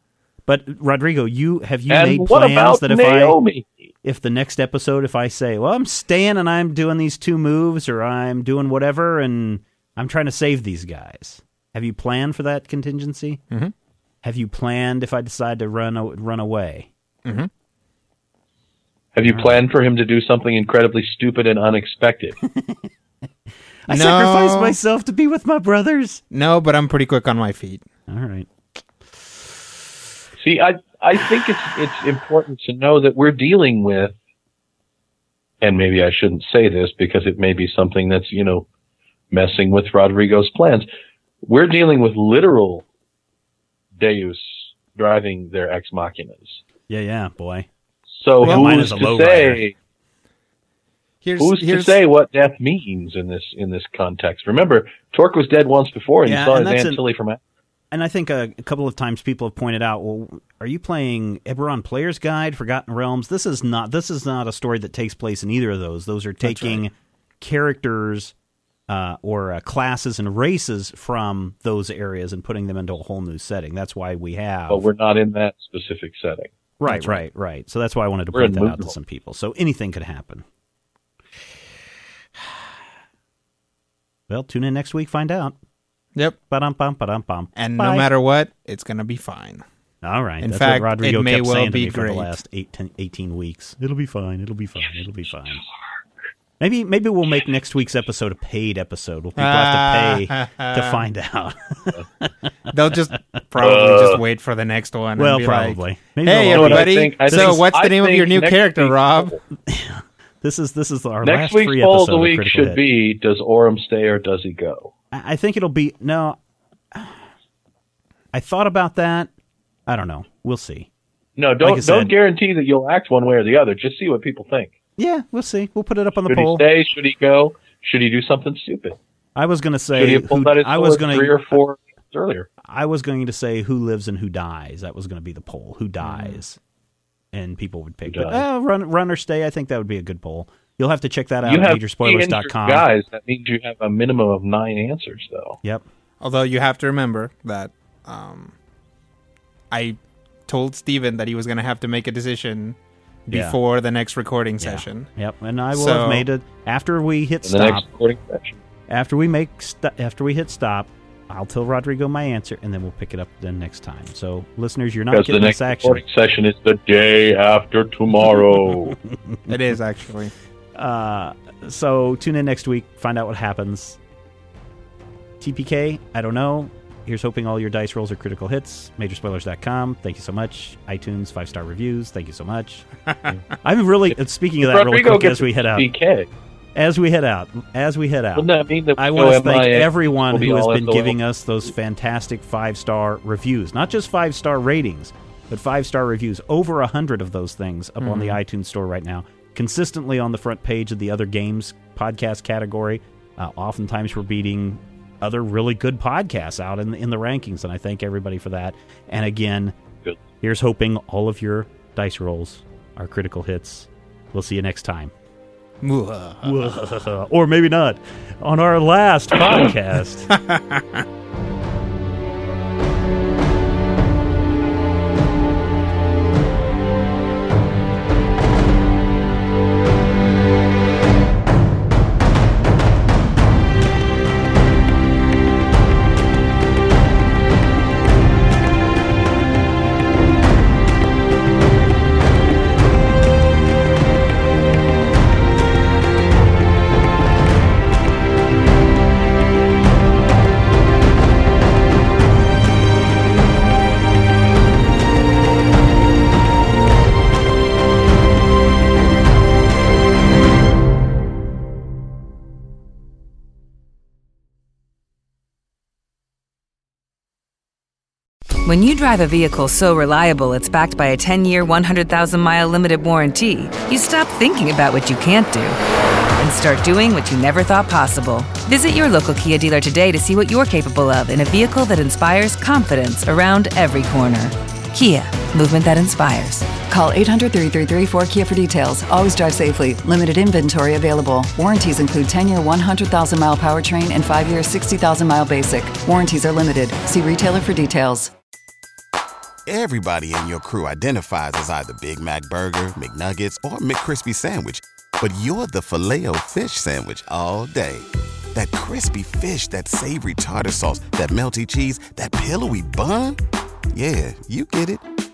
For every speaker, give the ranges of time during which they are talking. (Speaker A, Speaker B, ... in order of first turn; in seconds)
Speaker A: 0.5-3.4, 4.0-13.4, 14.2-16.9, 19.2-19.6, 22.5-22.9, 23.9-26.2, 28.1-28.5, 46.9-47.7, 48.4-49.6, 56.2-57.0, 57.9-68.3, 68.9-74.8, 76.8-80.5, 84.3-85.5, 86.5-88.1, 90.0-95.6, 96.6-102.3, 105.2-107.6, 109.7-112.8, 115.1-116.4, 116.9-117.2, 118.3-119.3, 119.9-120.9, 121.6-122.1, 125.0-126.6, 129.3-131.6, 132.6-136.6, 137.3-142.8, 153.3-153.6, 154.6-157.8, 158.9-166.0, 170.7-174.0, 175.4-182.9, 183.6-185.9, 186.7-209.7, 210.4-215.1, 216.4-220.3
Speaker B: 1.9-3.7, 19.1-22.4, 30.4-34.1, 35.6-38.6, 39.3-40.9, 41.4-42.8, 44.0-46.6, 48.2-49.7, 51.4-57.4, 74.7-76.5, 78.3-78.9, 103.6-104.2, 106.5-109.4, 111.2-114.9, 121.4-124.7, 126.3-129.0, 129.9-132.5, 138.0-138.4, 141.4-145.6, 157.4-158.6, 165.1-168.9, 184.6-186.3, 188.3-191.2
Speaker C: 17.2-17.5, 23.9-24.8, 26.3-27.8, 48.4-48.7, 51.2-52.0, 66.4-66.8, 76.8-77.2, 87.5-89.6, 90.4-92.3, 99.4-101.0, 102.7-109.3, 146.2-148.5, 149.7-152.8, 153.3-155.1, 155.7-156.2, 169.5-170.3, 198.0-198.4, 215.8-216.7, 220.3-221.0
Speaker D: 268.6-275.8, 276.4-286.8
Speaker E: 286.7-298.3
Speaker F: 299.6-313.4, 313.9-315.0